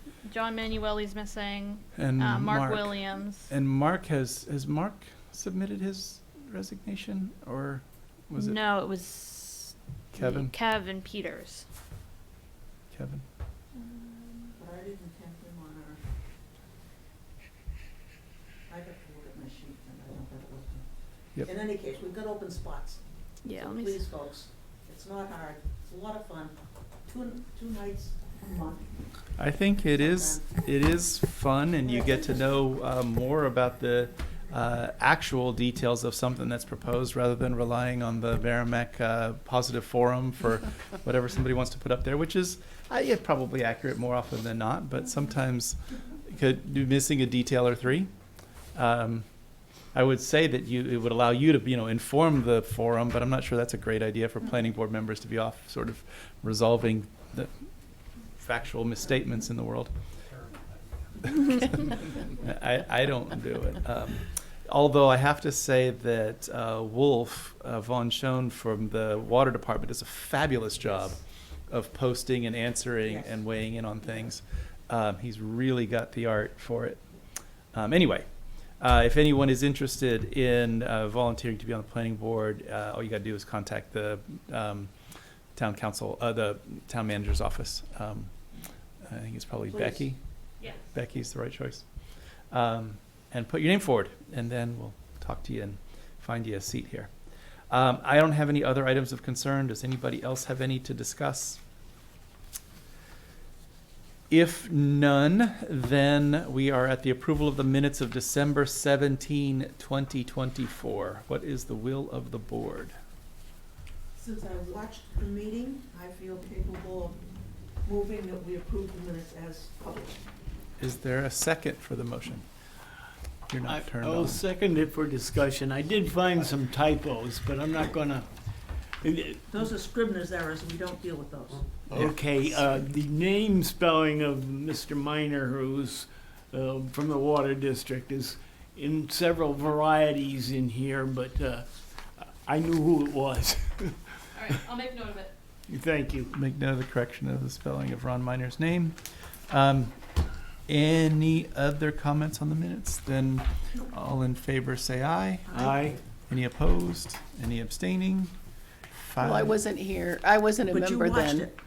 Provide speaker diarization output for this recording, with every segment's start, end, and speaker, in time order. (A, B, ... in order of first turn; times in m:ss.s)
0:00.2-0:03.5 A
0:01.9-0:08.6 B
0:08.3-0:11.6 A
0:10.1-0:10.5 B
0:12.9-0:13.2 B
0:13.7-0:14.5 A
0:14.6-0:16.0 C
0:18.7-0:28.9 C
0:23.4-0:24.0 A
0:29.4-0:48.2 B
0:29.9-0:30.6 C
0:31.8-0:32.5 C
0:48.7-0:57.5 B
0:58.2-0:59.9 B
1:00.2-1:02.2 D
1:02.4-1:17.1 B
1:13.0-1:13.4 C
1:17.7-1:24.9 B
1:25.5-1:28.3 B
1:29.0-1:31.8 B
1:29.7-1:30.1 C
1:32.5-1:37.1 B
1:37.7-1:41.6 B
1:44.3-1:52.9 B
1:54.2-1:57.2 C
1:57.8-2:00.3 C
2:00.8-2:02.4 B
2:03.5-2:04.4 B
2:03.6-2:08.3 E
2:09.0-2:09.4 E
2:09.5-2:11.9 C
2:11.9-2:24.2 E
2:24.3-2:25.3 A
2:25.7-2:26.3 E
2:26.3-2:29.9 B
2:30.7-2:35.6 B
2:35.5-2:35.9 C
2:35.5-2:36.0 E
2:36.3-2:38.3 B
2:38.9-2:39.6 B
2:39.2-2:41.5 F
2:40.7-2:41.5 C